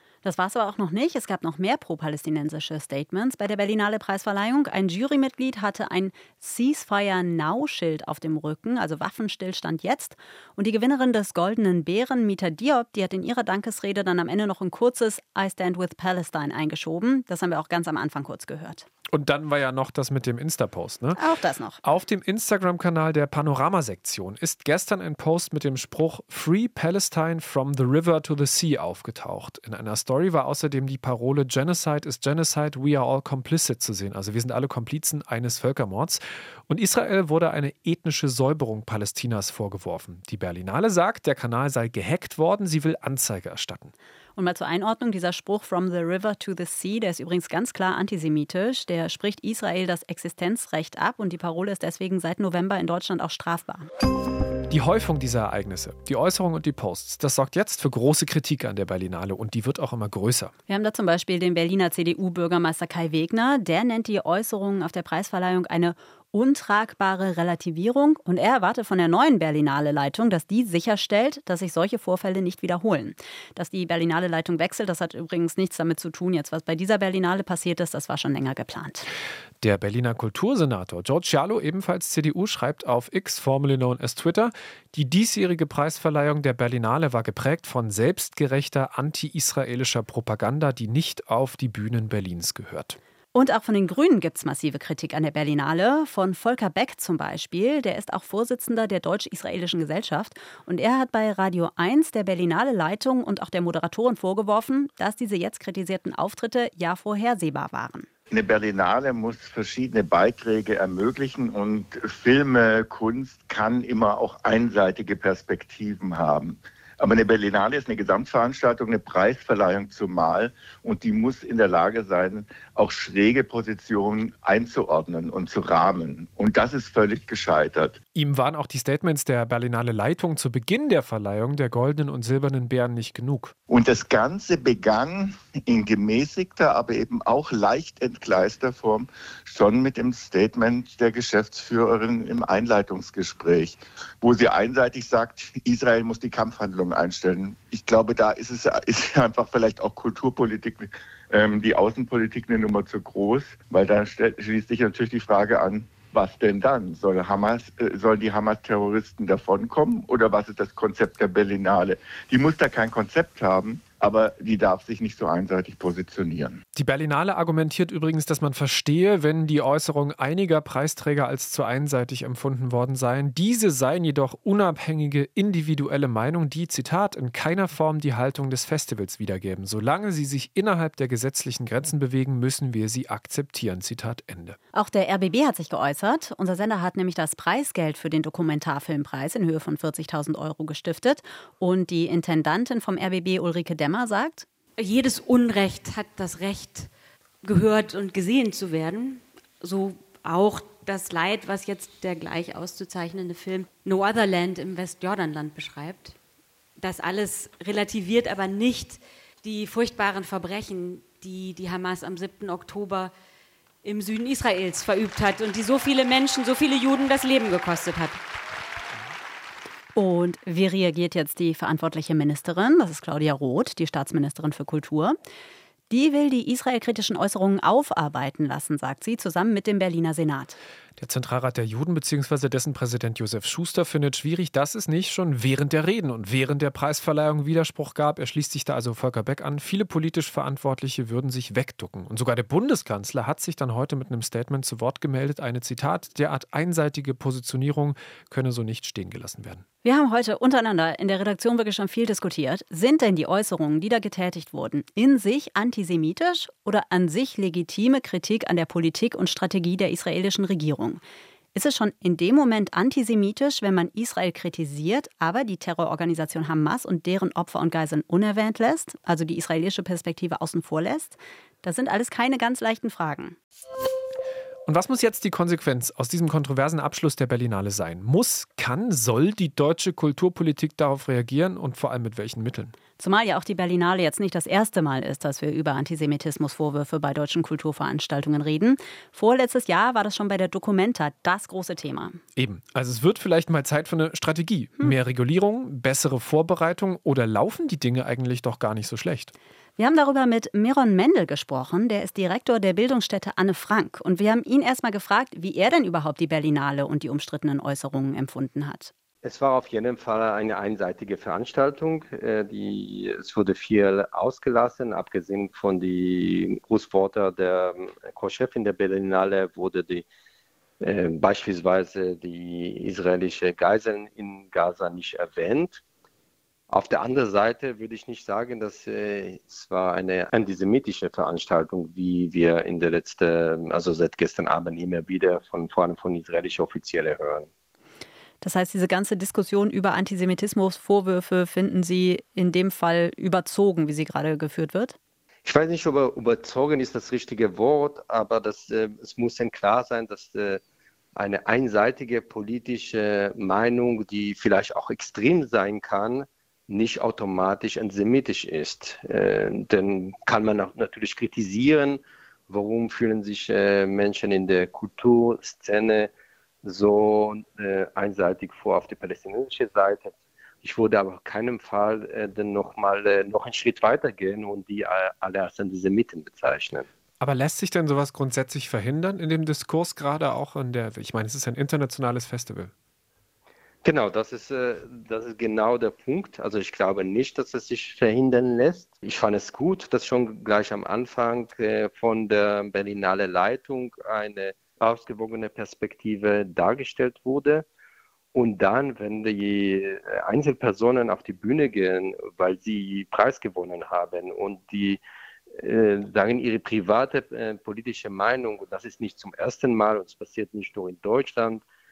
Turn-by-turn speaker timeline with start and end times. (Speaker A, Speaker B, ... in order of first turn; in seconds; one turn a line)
Speaker A: 0.2-18.9
Speaker B: 19.1-21.2
Speaker A: 21.2-21.8
Speaker B: 21.8-43.9
Speaker A: 44.4-53.9
Speaker B: 54.7-60.5
Speaker A: 60.7-79.1
Speaker B: 79.6-93.0
Speaker A: 93.3-108.1
Speaker C: 108.3-127.9
Speaker B: 128.2-133.5
Speaker C: 133.7-166.6
Speaker B: 166.7-184.6
Speaker A: 184.7-194.4
Speaker D: 194.8-196.9
Speaker D: 197.4-206.2
Speaker D: 206.8-213.1
Speaker D: 213.8-218.2
Speaker A: 219.9-225.2
Speaker A: 225.9-230.6
Speaker B: 231.0-249.6
Speaker A: 249.8-261.0
Speaker A: 261.5-273.4
Speaker B: 274.7-282.7
Speaker A: 283.0-292.2
Speaker B: 292.3-299.3
Speaker A: 299.8-308.9
Speaker E: 309.2-320.1
Speaker E: 320.8-325.8
Speaker E: 326.7-337.5
Speaker A: 338.4-344.9
Speaker E: 345.4-350.6
Speaker E: 351.2-366.1
Speaker E: 366.6-376.9
Speaker B: 377.2-382.7
Speaker E: 383.8-397.6
Speaker E: 398.3-405.0
Speaker E: 405.6-411.6